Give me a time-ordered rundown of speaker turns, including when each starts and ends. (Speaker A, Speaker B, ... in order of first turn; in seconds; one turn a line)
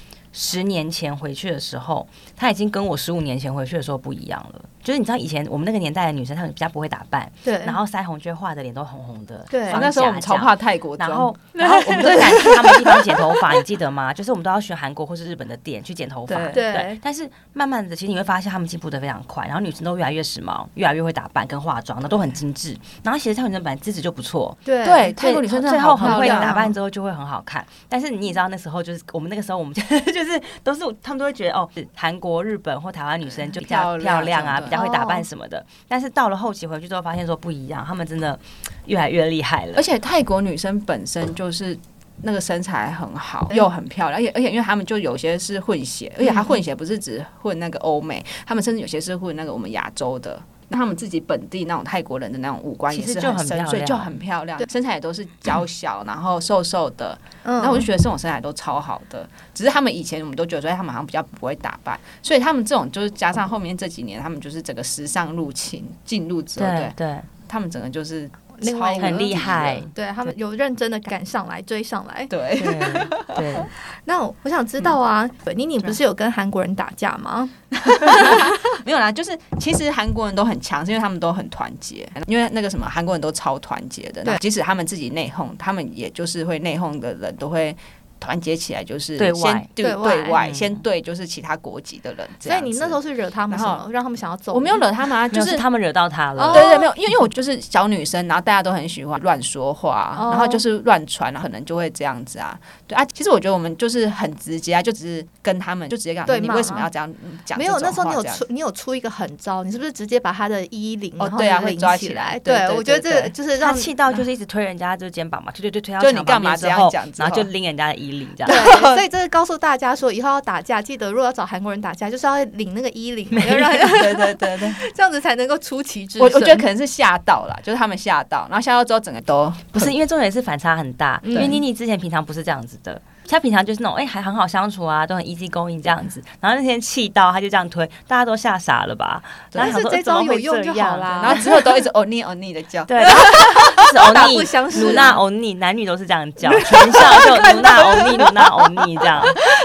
Speaker A: 0.3-39.9
Speaker B: 7.5-7.8
Speaker B: 9.5-9.8
Speaker C: 9.7-11.3
Speaker B: 11.6-13.2
Speaker C: 16.3-16.6
Speaker B: 16.5-17.0
Speaker B: 24.6-25.1
Speaker C: 24.8-26.7
Speaker B: 26.0-26.8
Speaker C: 33.3-34.8
Speaker B: 34.7-35.3
Speaker C: 39.8-69.9
Speaker A: 52.9-54.1
Speaker B: 57.5-57.9
Speaker A: 66.6-67.3
Speaker B: 68.6-72.4
Speaker A: 69.0-69.9
Speaker C: 72.3-73.7
Speaker A: 72.6-73.7
Speaker B: 74.0-78.6
Speaker C: 77.9-93.8
Speaker A: 89.2-89.7
Speaker B: 89.8-90.4
Speaker A: 90.3-90.8
Speaker B: 92.5-94.8
Speaker C: 94.5-95.7
Speaker A: 95.3-96.8
Speaker B: 96.4-96.9
Speaker C: 96.5-108.5
Speaker B: 100.1-100.6
Speaker B: 106.3-106.9
Speaker B: 107.5-114.2
Speaker C: 111.2-113.3
Speaker A: 113.5-118.7
Speaker C: 116.0-117.5
Speaker C: 118.4-119.0
Speaker B: 118.5-126.6
Speaker A: 123.3-124.1
Speaker C: 123.7-124.8
Speaker C: 126.2-129.9
Speaker A: 129.7-141.6
Speaker B: 131.2-131.6
Speaker C: 139.5-139.8
Speaker B: 139.6-141.7
Speaker C: 141.2-145.1
Speaker A: 142.9-149.4
Speaker B: 143.1-145.2
Speaker B: 146.9-147.5
Speaker C: 147.2-148.4